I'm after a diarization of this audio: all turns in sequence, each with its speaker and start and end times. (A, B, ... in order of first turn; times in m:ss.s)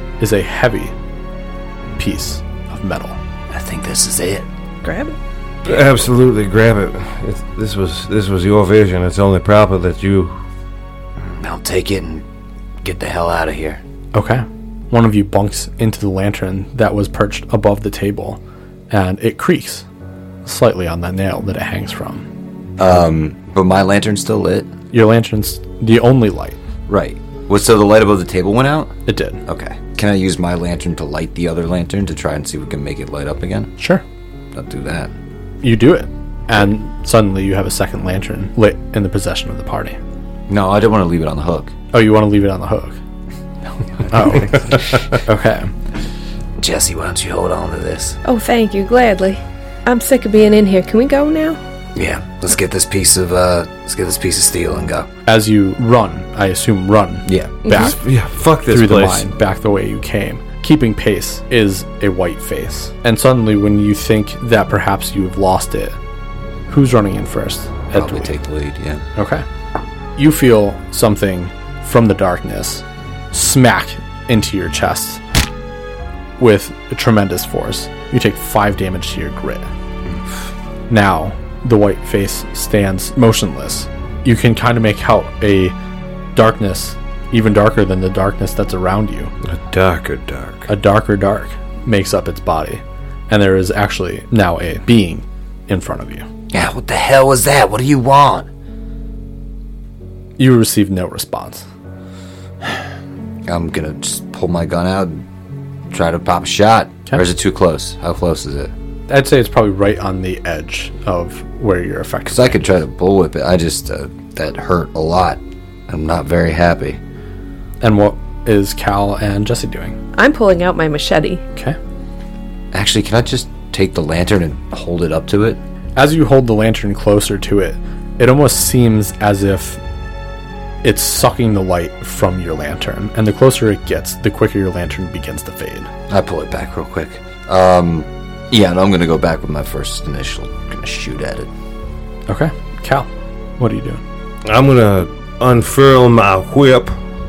0:00.2-0:00.9 A
0:02.0-0:03.2 A
0:03.5-0:04.5 B
0:04.8-0:05.2 C
0:05.6-0:10.3 D
0:11.2-0:12.2 B
0:12.8-0:13.8 B
0:14.1-0:19.8 A
0:20.4-0:22.3 A
0:22.8-0:24.7 E
0:24.9-0:26.6 A
0:26.9-0:33.8 E
0:29.1-0:29.4 A
0:34.5-0:35.1 E
0:35.6-0:40.0 A
0:40.5-0:41.7 E
0:41.9-0:43.0 A
0:44.1-0:45.7 A
0:46.6-0:48.2 B
0:48.2-0:51.6 C
0:52.0-0:55.1 B
0:55.3-0:58.0 A
0:57.3-0:57.6 E
0:57.6-0:58.0 C
0:57.7-0:59.2 D
0:58.7-1:06.0 A
1:06.7-1:08.4 A
1:07.9-1:09.0 E
1:09.2-1:09.4 A
1:10.2-1:15.2 A
1:16.4-1:19.7 A
1:20.9-1:25.8 A
1:26.4-1:29.3 A
1:29.4-1:30.7 D
1:30.7-1:36.3 A
1:36.5-1:38.5 B
1:40.4-1:41.7 A
1:43.5-1:45.2 E
1:45.9-1:48.7 E
1:49.1-1:52.6 A
1:52.3-1:57.0 E
1:57.8-2:00.0 A
2:00.2-2:01.4 C
2:02.7-2:05.6 E
2:06.0-2:09.8 A
2:10.8-2:15.9 A
2:16.1-2:21.5 E
2:22.3-2:24.0 A
2:24.4-2:26.9 D